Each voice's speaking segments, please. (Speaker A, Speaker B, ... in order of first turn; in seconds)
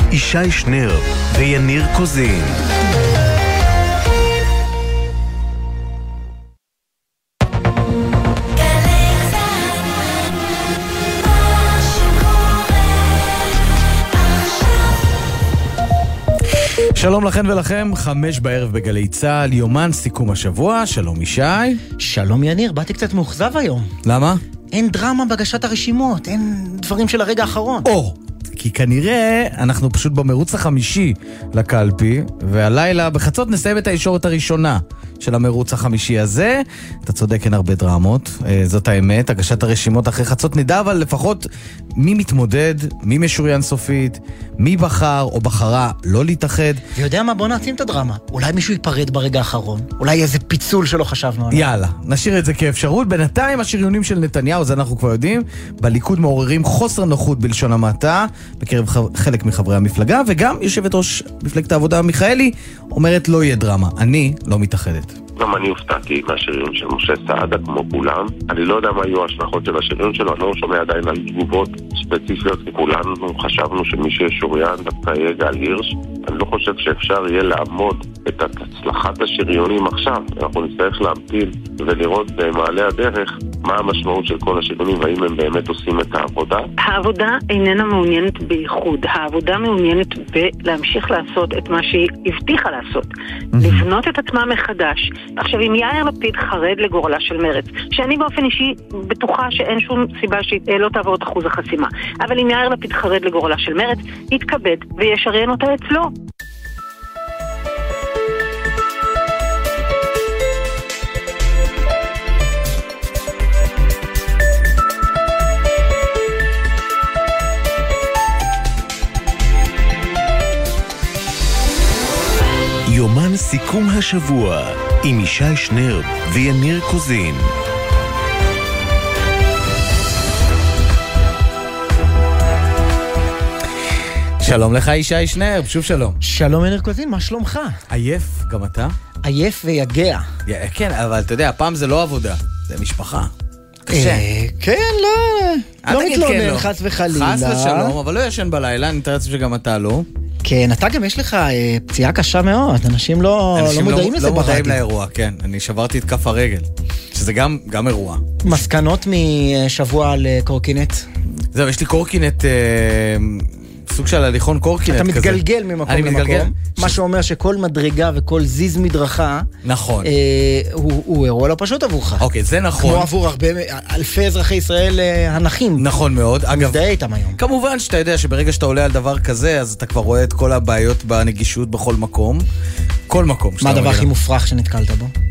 Speaker A: 0.6-2.5, 126.5-127.3
Speaker B: 16.9-21.8, 24.0-24.4, 27.8-46.8, 51.5-65.1, 134.4-136.2, 137.9-138.9, 140.4-143.3, 143.9-144.2, 145.8-150.1, 153.6-158.2, 161.5-166.9, 169.6-170.1, 172.2-173.1, 175.8-176.8, 177.4-182.4, 183.1-184.1
Speaker C: 22.0-23.9, 24.7-27.9, 46.9-51.7, 136.2-137.8, 139.2-140.3, 143.9-147.9, 150.4-154.8, 158.4-161.1, 164.9-169.5, 170.0-172.3, 172.8-175.8, 176.5-177.4, 183.6-185.1
Speaker D: 65.4-86.7
Speaker E: 86.8-106.1